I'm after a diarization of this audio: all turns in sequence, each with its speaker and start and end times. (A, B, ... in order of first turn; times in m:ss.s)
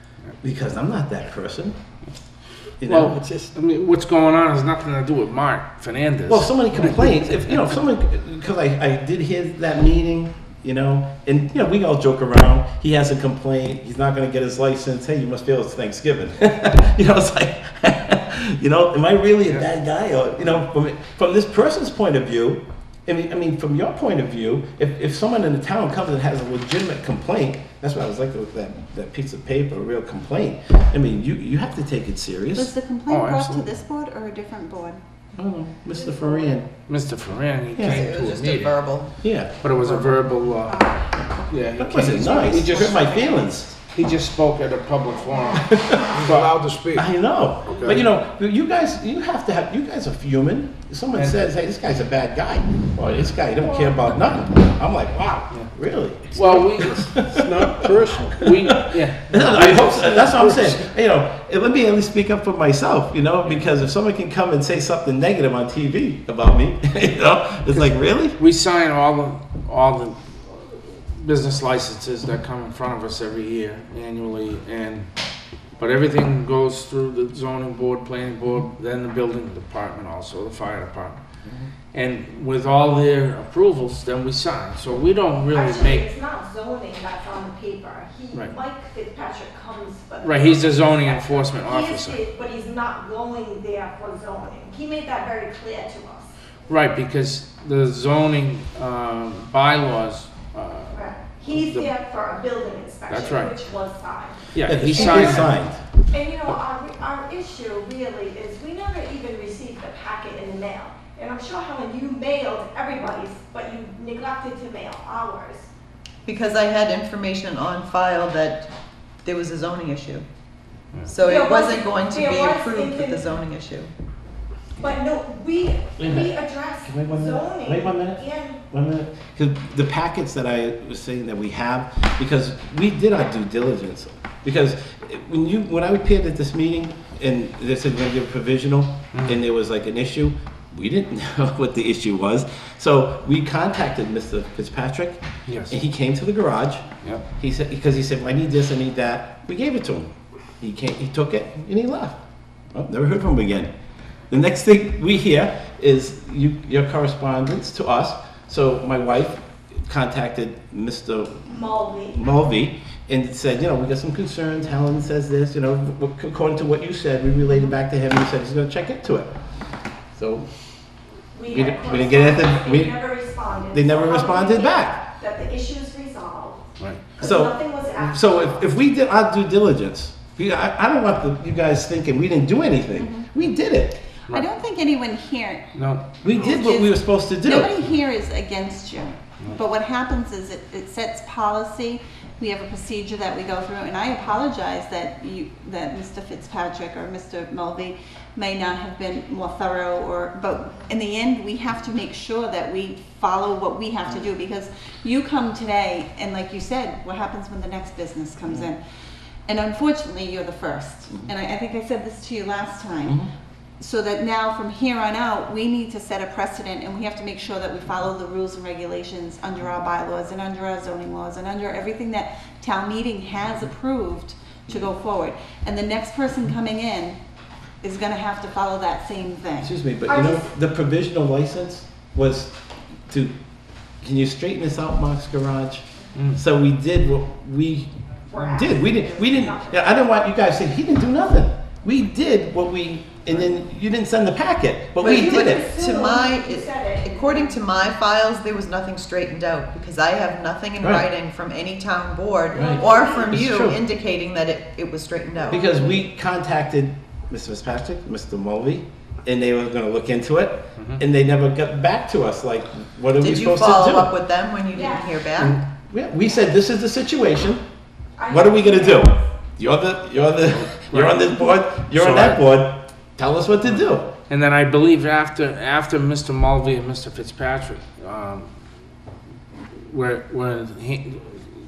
0:00.4-0:01.8 A
0:02.8-0:03.2 A
0:02.8-0:07.7 B
0:03.2-0:03.5 C
0:06.3-0:32.7 A
0:32.5-0:35.0 D
0:33.1-0:33.7 B
0:35.3-0:36.7 A
0:36.8-0:38.7 B
0:37.8-0:38.0 A
0:37.8-0:39.2 E
0:39.2-0:39.5 A
0:39.6-0:40.9 B
0:40.6-0:41.4 F
0:41.5-0:43.1 B
0:41.8-0:43.8 A
0:43.7-0:46.6 B
0:45.5-0:46.2 A
0:46.1-0:47.1 C
0:46.9-1:08.4 A
0:47.6-0:48.0 C
0:56.3-0:57.0 B
0:56.3-0:58.5 C
0:58.3-0:59.5 B
0:59.3-1:00.8 C
1:07.7-1:15.1 B
1:15.8-1:21.2 B
1:21.9-1:26.0 B
1:25.5-1:36.3 F
1:30.2-1:32.2 B
1:36.7-1:41.9 B
1:40.9-1:45.5 F
1:43.1-1:43.5 B
1:44.5-1:45.5 B
1:44.6-1:45.8 A
1:46.1-1:55.7 F
1:56.2-1:58.7 E
1:59.2-2:00.2 E
2:01.0-2:03.9 E
2:01.2-2:03.2 F
2:04.8-2:08.6 F
2:06.0-2:26.8 A
2:19.1-2:19.4 B
2:25.5-2:25.7 B
2:27.4-2:32.2 A
2:32.7-2:33.7 A
2:34.3-2:41.5 A
2:41.5-2:42.2 F
2:42.1-2:49.3 A
2:50.1-2:50.5 A
2:51.3-2:58.6 F
2:51.5-2:53.0 A
2:53.7-2:55.0 A
2:56.8-2:57.1 B
2:57.2-3:04.0 A
3:03.0-3:03.3 D
3:04.3-3:05.8 D
3:05.7-3:06.3 B
3:06.2-3:07.7 A
3:06.3-3:28.8 D
3:29.5-3:33.2 D
3:33.8-3:47.2 D
3:47.8-3:49.7 D
3:49.6-3:52.5 A
3:50.1-3:50.5 F
3:53.1-3:53.3 A
3:54.0-4:05.6 A
3:58.3-4:00.0 F
4:05.0-4:15.7 E
4:05.0-4:07.5 F
4:12.5-4:13.8 A
4:12.5-4:13.3 F
4:15.5-4:24.1 A
4:15.5-4:15.9 F
4:23.2-4:25.6 E
4:24.7-4:25.1 F
4:25.4-4:27.6 A
4:28.2-4:29.3 F
4:28.3-4:34.1 A
4:30.7-4:32.4 B
4:34.3-4:38.5 B
4:39.8-4:41.4 B